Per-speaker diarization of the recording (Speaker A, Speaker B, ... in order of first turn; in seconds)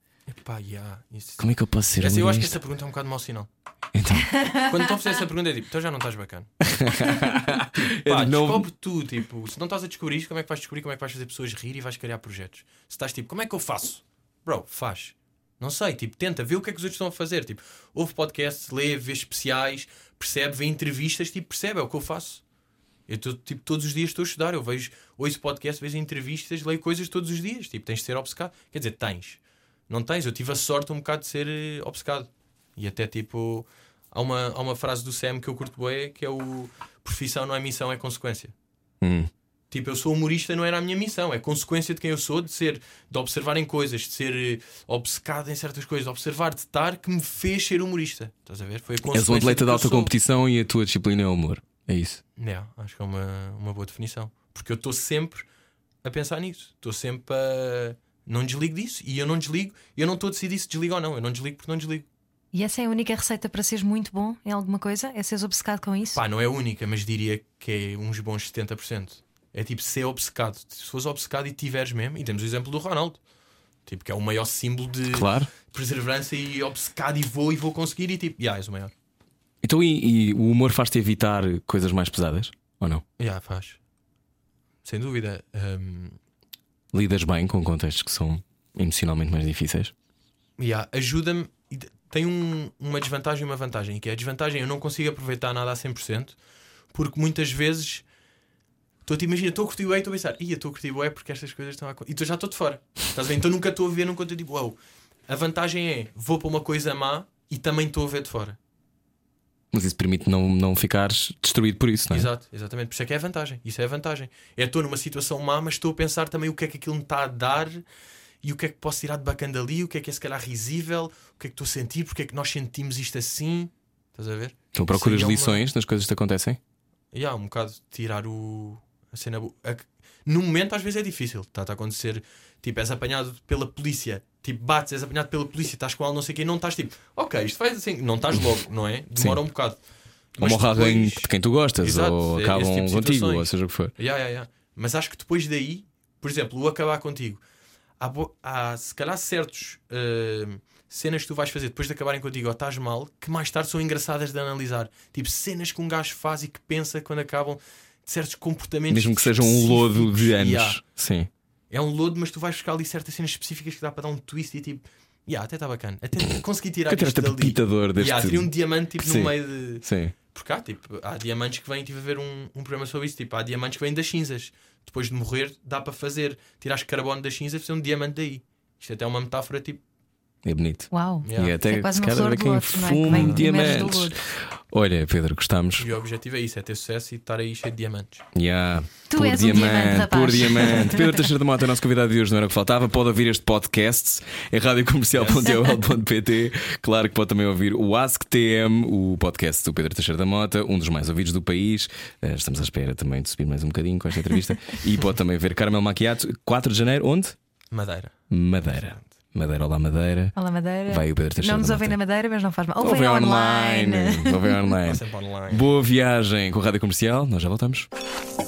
Speaker A: 0.3-3.5, 4.5-6.5, 7.7-22.4, 23.1-38.5, 39.7-50.1, 52.4-55.5, 56.0-62.0, 66.1-73.2, 73.8-78.9, 83.2-83.8, 84.8-86.2, 90.6-96.4, 96.9-98.0, 99.0-104.8, 105.3-108.6, 112.1-117.8, 118.4-125.6, 127.1-139.8, 140.3-147.4, 148.0-160.8, 161.7-179.8, 181.2-181.6, 183.1-183.8, 185.8-188.2, 195.1-195.6, 207.7-209.1, 214.8-215.7
Speaker B: 1.4-2.6, 3.9-4.4, 6.6-8.7, 39.0-39.3, 49.1-52.2, 75.1-75.5, 79.6-83.0, 86.9-89.9, 109.7-112.3, 124.7-126.6, 139.2-139.4, 140.4-143.9, 158.9-161.3, 166.9-170.1, 180.4-185.9, 188.3-207.3, 208.3-210.3, 210.9-212.0, 212.8-217.9
Speaker C: 62.5-66.2, 180.9-184.2, 189.1-191.3, 210.3-214.6